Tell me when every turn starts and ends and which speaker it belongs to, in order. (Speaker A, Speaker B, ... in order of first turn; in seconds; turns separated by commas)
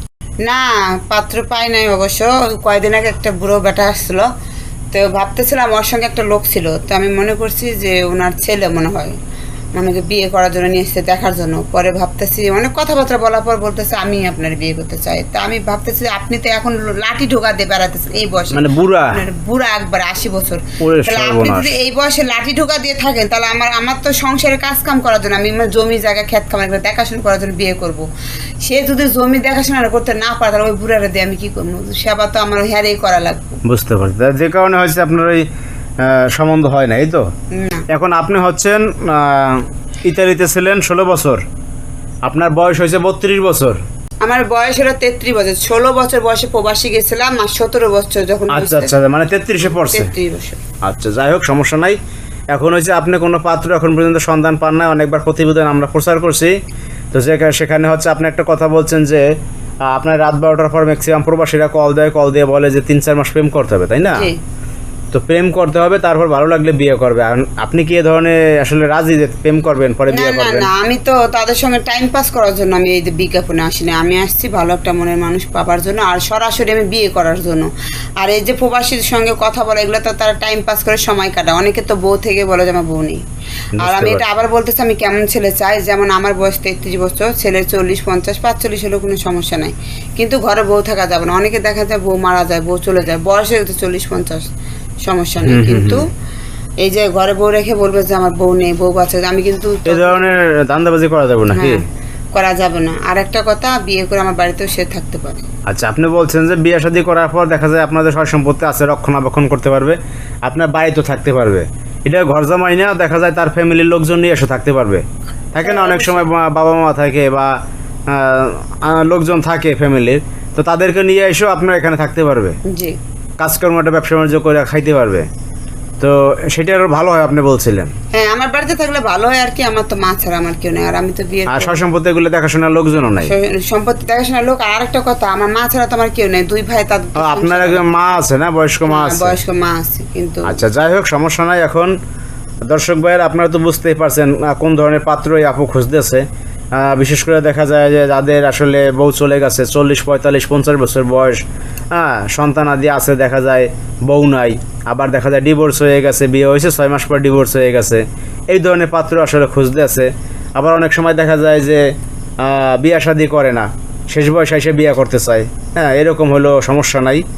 Speaker A: 0.5-4.2, Speaker A: 4.9-9.2, Speaker A: 9.8-28.1, Speaker B: 18.5-19.2, Speaker B: 20.8-21.7, Speaker A: 28.6-33.6, Speaker B: 33.6-35.5, Speaker B: 36.0-37.2, Speaker A: 37.5-37.9, Speaker B: 37.9-41.4, Speaker B: 42.3-43.8, Speaker A: 44.2-48.9, Speaker B: 48.5-50.1, Speaker A: 49.8-50.6, Speaker B: 50.8-52.0, Speaker B: 52.5-56.5, Speaker B: 57.1-59.2, Speaker B: 59.9-64.3, Speaker A: 64.1-64.4, Speaker B: 65.1-70.7, Speaker A: 70.1-77.7, Speaker A: 78.2-83.2, Speaker B: 83.8-84.2, Speaker A: 83.8-94.5, Speaker A: 95.0-96.1, Speaker B: 95.4-96.0, Speaker A: 96.8-100.3, Speaker B: 99.9-101.8, Speaker A: 101.5-101.8, Speaker A: 102.3-105.5, Speaker B: 105.7-117.5, Speaker A: 115.6-116.3, Speaker B: 118.1-122.6, Speaker A: 122.7-123.0, Speaker B: 123.4-125.3, Speaker B: 126.0-127.9, Speaker A: 128.1-131.8, Speaker B: 131.5-133.3, Speaker A: 133.2-137.8, Speaker B: 137.2-139.4, Speaker A: 138.9-140.6, Speaker B: 140.5-141.9, Speaker B: 142.7-151.4, Speaker B: 151.9-161.8, Speaker B: 162.4-167.2